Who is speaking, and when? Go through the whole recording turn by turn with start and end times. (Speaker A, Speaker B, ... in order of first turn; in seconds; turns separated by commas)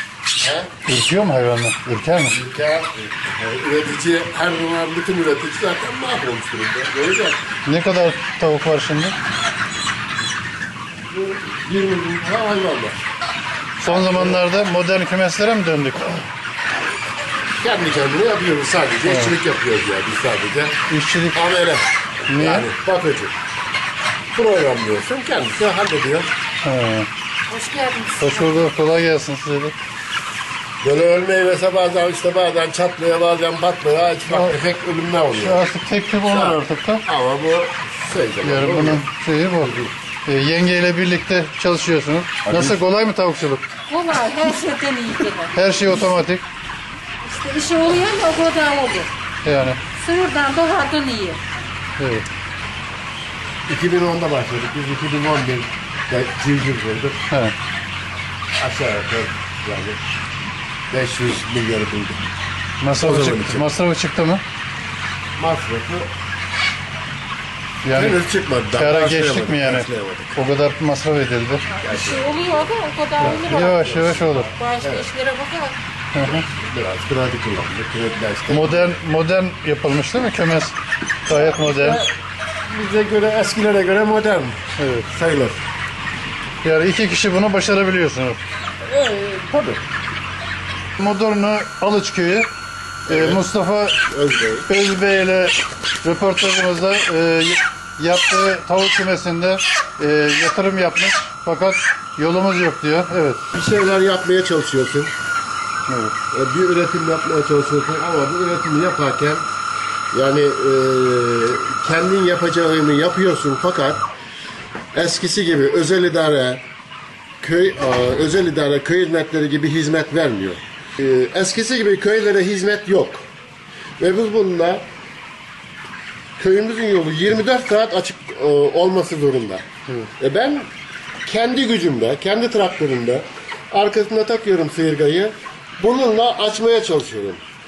Speaker A: 0.4-0.7, Speaker B: 0.9-2.4, Speaker A: 2.3-7.4, Speaker B: 7.7-9.2, Speaker A: 11.1-13.0, Speaker B: 13.8-16.1, Speaker A: 13.8-14.4, Speaker A: 17.6-23.3, Speaker B: 19.1-19.4, Speaker B: 20.9-21.4, Speaker B: 22.3-22.7, Speaker A: 24.3-26.3, Speaker B: 26.6-27.1, Speaker C: 27.5-28.7, Speaker B: 28.2-29.8, Speaker A: 30.8-35.6, Speaker B: 34.3-34.5, Speaker B: 35.4-37.0, Speaker A: 36.3-39.0, Speaker B: 38.4-39.7, Speaker A: 39.6-39.9, Speaker B: 40.2-43.6, Speaker A: 42.5-42.8, Speaker C: 43.9-45.6, Speaker B: 45.5-46.5, Speaker C: 47.2-49.1, Speaker B: 49.4-49.8, Speaker C: 50.0-51.4, Speaker B: 52.0-52.3, Speaker A: 53.7-57.2, Speaker B: 57.3-57.5, Speaker A: 58.6-60.0, Speaker A: 60.9-62.3, Speaker B: 62.8-64.4, Speaker A: 63.0-63.7, Speaker A: 65.4-66.1, Speaker B: 67.8-68.2, Speaker A: 67.9-70.4, Speaker B: 68.7-71.7, Speaker C: 71.7-73.9, Speaker A: 71.8-72.7, Speaker A: 73.2-75.1, Speaker B: 73.2-74.5, Speaker C: 74.6-75.8, Speaker B: 76.1-76.4, Speaker A: 76.2-78.9, Speaker B: 78.5-82.0, Speaker A: 81.3-82.1, Speaker A: 82.7-85.6, Speaker B: 84.8-85.1, Speaker B: 86.6-88.4, Speaker A: 88.8-89.8, Speaker B: 91.0-92.5, Speaker B: 93.1-94.0, Speaker A: 93.1-93.4, Speaker A: 94.1-94.7, Speaker B: 94.7-103.4, Speaker A: 103.5-105.1, Speaker B: 105.9-106.2, Speaker A: 106.3-109.4, Speaker A: 110.1-114.1, Speaker A: 114.9-116.6, Speaker A: 117.4-123.3, Speaker A: 124.0-124.8, Speaker A: 126.4-130.7, Speaker A: 131.2-137.4